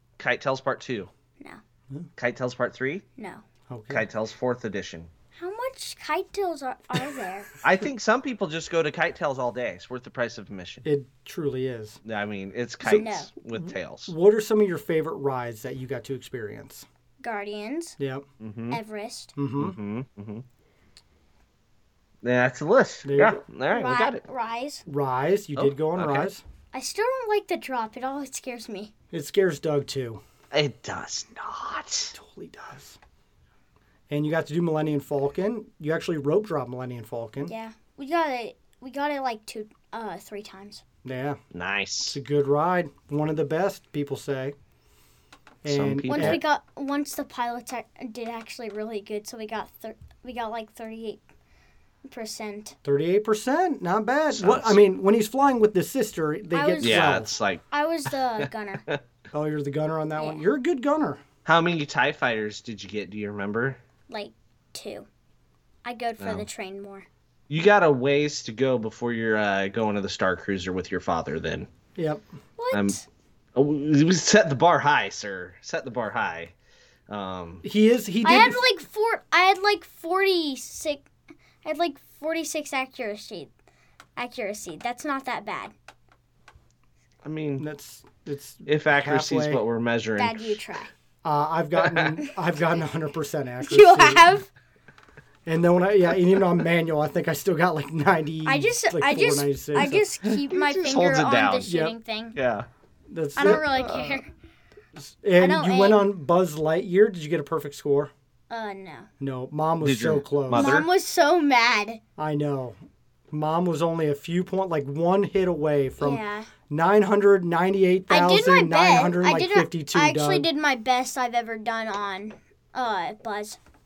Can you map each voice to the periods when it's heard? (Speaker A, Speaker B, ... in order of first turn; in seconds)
Speaker A: 0.2-1.1, 2.2-3.0, 3.9-5.1, 7.6-10.8, 12.1-14.1, 18.4-18.8, 19.6-20.4, 22.2-24.2, 25.6-26.3, 30.5-32.1, 41.5-42.2, 45.6-46.4, 54.3-54.8, 56.8-59.0, 61.5-63.8, 66.2-66.5, 67.5-71.7, 72.7-73.0, 73.5-76.5, 77.1-77.7, 87.2-87.6, 88.7-90.6, 99.8-101.7, 102.3-102.7, 109.8-110.9
Speaker B: 3.2-3.4, 5.3-7.5, 12.8-13.3, 17.2-18.0, 18.7-19.3, 23.7-24.8, 26.7-28.9, 37.4-40.8, 46.1-51.2, 52.1-52.8, 56.5-58.8, 60.2-60.4, 64.1-65.1, 65.8-67.1, 72.6-73.0, 78.2-81.1, 81.6-83.5, 84.2-85.7, 90.2-90.9, 93.6-94.5, 98.5-102.4, 103.4-104.3, 105.4-106.1, 108.5-109.1, 110.5-112.0, 116.0-116.5, 118.1-123.6
Speaker C: 3.7-4.1, 10.8-12.0, 12.8-16.9, 18.0-18.2, 19.4-19.8, 23.1-23.4, 24.9-26.4, 29.1-30.2, 32.1-33.0, 34.1-37.5, 41.0-41.4, 42.1-44.5, 45.6-46.4, 52.8-57.3, 59.3-61.2, 72.0-72.2, 77.6-78.7, 87.6-89.6, 91.2-94.3, 95.5-100.1, 101.7-102.0, 103.1-104.2, 105.0-108.1, 109.2-110.8, 112.2-112.8, 113.3-120.5